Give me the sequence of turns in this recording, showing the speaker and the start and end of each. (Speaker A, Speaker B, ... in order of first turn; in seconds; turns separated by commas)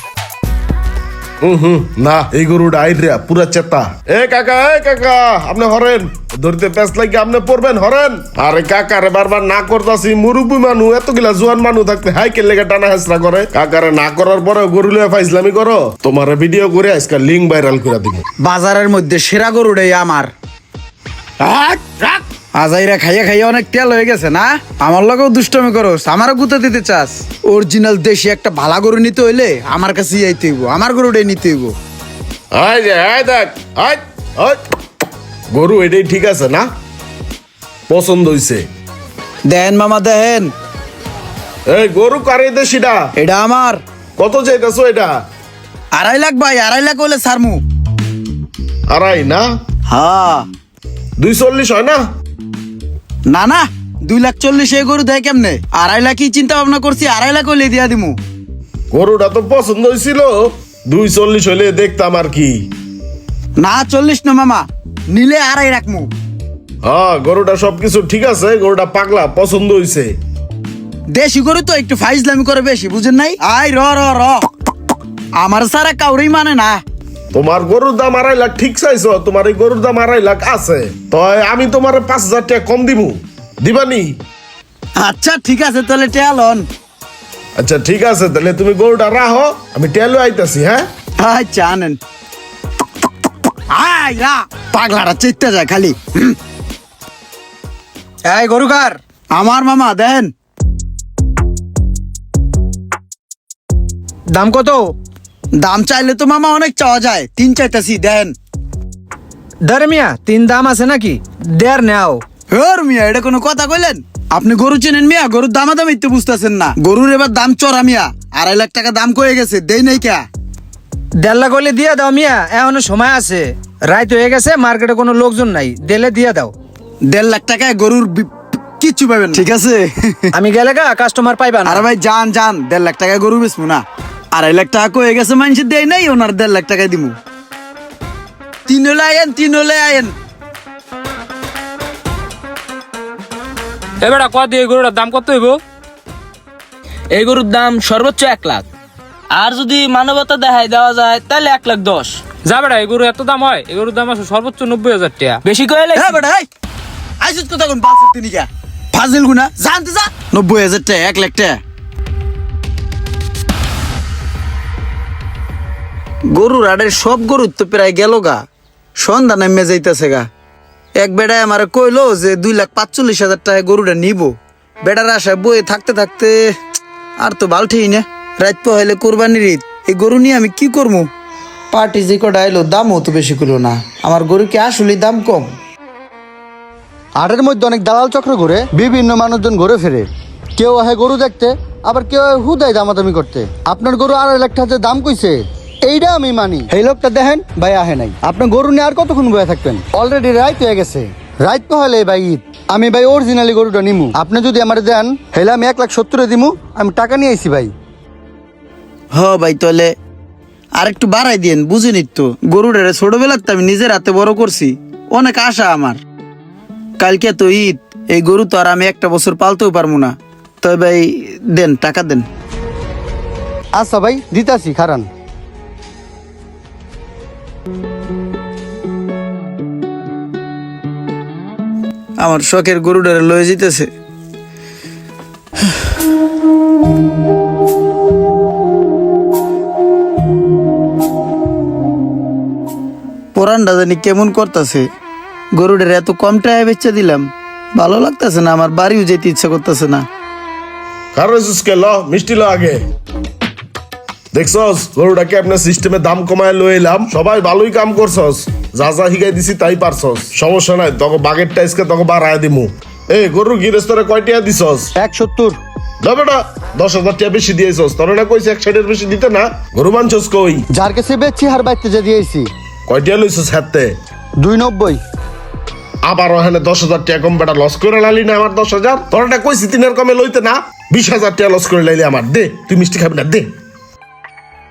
Speaker A: 1.4-18.2, Speaker B: 18.4-20.3, Speaker B: 21.4-31.7, Speaker A: 32.5-34.6, Speaker A: 35.5-36.7, Speaker A: 37.9-38.6, Speaker B: 39.5-40.5, Speaker A: 41.7-43.0, Speaker B: 43.2-43.8, Speaker A: 44.2-45.1, Speaker B: 45.9-47.6, Speaker A: 48.9-49.4, Speaker B: 49.9-50.5, Speaker A: 51.2-52.0, Speaker B: 53.3-58.2, Speaker A: 58.9-60.4, Speaker A: 60.9-62.7, Speaker B: 63.6-66.1, Speaker A: 66.8-70.1, Speaker B: 71.1-74.5, Speaker B: 75.4-76.8, Speaker A: 77.3-84.1, Speaker B: 85.0-86.7, Speaker A: 87.6-90.8, Speaker B: 91.2-92.0, Speaker B: 93.7-96.3, Speaker C: 98.2-99.0, Speaker B: 99.3-100.3, Speaker C: 104.3-104.9, Speaker B: 105.6-108.3, Speaker C: 109.7-112.2, Speaker B: 112.5-120.2, Speaker C: 121.2-126.5, Speaker B: 127.0-130.3, Speaker C: 130.3-131.9, Speaker B: 131.7-137.2, Speaker B: 138.7-140.1, Speaker D: 144.0-145.6, Speaker E: 147.1-148.7, Speaker E: 149.3-152.2, Speaker D: 152.4-155.4, Speaker E: 155.4-156.2, Speaker B: 155.9-156.5, Speaker B: 157.2-161.6, Speaker B: 166.3-168.4, Speaker B: 169.0-170.2, Speaker B: 171.0-174.3, Speaker B: 174.8-176.4, Speaker B: 177.2-181.1, Speaker B: 181.7-185.5, Speaker F: 187.2-207.7, Speaker B: 209.1-209.9, Speaker B: 210.8-216.0, Speaker B: 217.0-222.2, Speaker F: 223.8-225.1, Speaker B: 232.2-233.9, Speaker B: 243.4-244.9, Speaker B: 245.5-250.1, Speaker A: 251.1-252.8, Speaker A: 254.3-264.9, Speaker F: 264.9-265.6, Speaker A: 266.0-270.6, Speaker F: 270.8-272.5, Speaker A: 272.9-273.9, Speaker F: 274.4-275.0, Speaker A: 276.0-283.5